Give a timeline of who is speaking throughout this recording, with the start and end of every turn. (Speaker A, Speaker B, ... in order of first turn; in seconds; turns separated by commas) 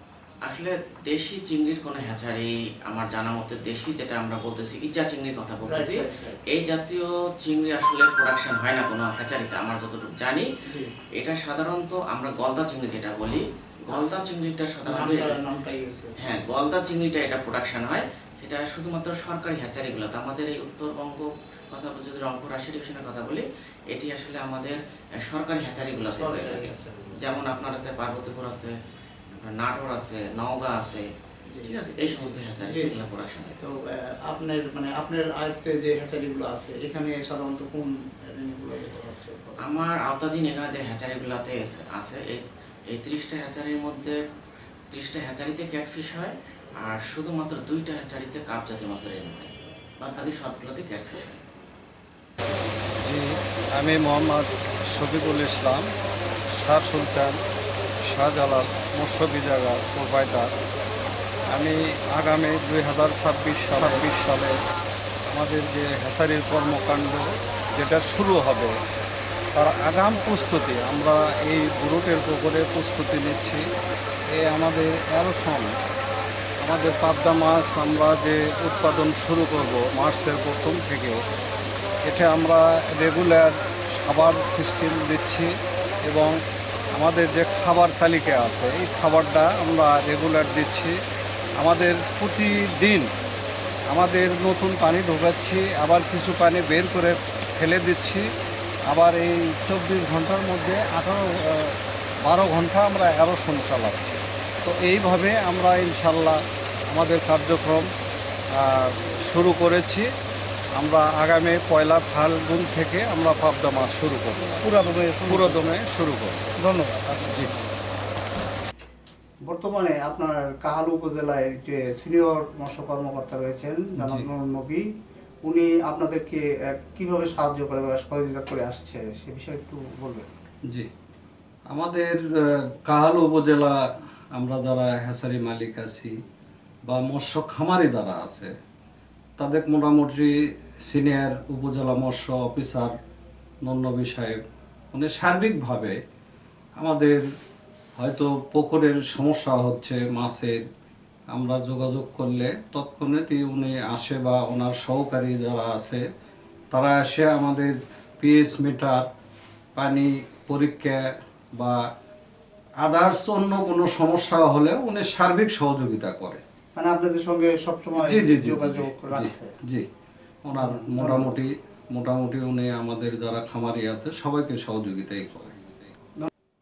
Speaker A: 0.4-10.5, Speaker B: 5.6-6.4, Speaker A: 11.2-15.4, Speaker B: 13.9-14.3, Speaker B: 14.8-16.6, Speaker A: 16.2-28.7, Speaker B: 26.0-27.2, Speaker A: 29.3-31.1, Speaker B: 31.5-32.9, Speaker A: 31.6-33.6, Speaker B: 33.5-39.9, Speaker A: 39.6-44.2, Speaker A: 44.9-51.4, Speaker C: 53.0-55.9, Speaker C: 56.5-57.4, Speaker C: 58.0-60.5, Speaker C: 61.5-64.6, Speaker C: 65.3-68.7, Speaker C: 69.5-73.6, Speaker C: 74.3-75.8, Speaker C: 76.6-81.2, Speaker C: 82.0-85.5, Speaker C: 86.0-86.4, Speaker C: 87.0-91.0, Speaker C: 91.6-93.1, Speaker C: 93.9-98.3, Speaker C: 98.9-107.9, Speaker C: 108.5-110.1, Speaker C: 110.8-116.5, Speaker B: 114.6-115.7, Speaker B: 116.6-117.8, Speaker C: 117.3-117.5, Speaker B: 119.5-124.8, Speaker C: 124.0-124.2, Speaker B: 125.4-130.3, Speaker C: 131.7-133.8, Speaker C: 134.3-136.1, Speaker C: 136.9-138.5, Speaker C: 139.4-142.9, Speaker C: 143.7-144.4, Speaker C: 144.9-146.0, Speaker C: 146.8-147.2, Speaker C: 148.0-150.6, Speaker C: 151.3-156.0, Speaker C: 156.7-159.1, Speaker C: 159.8-161.8, Speaker C: 162.8-166.4, Speaker B: 166.8-169.6, Speaker C: 168.0-169.9, Speaker C: 170.4-175.8, Speaker B: 170.6-171.4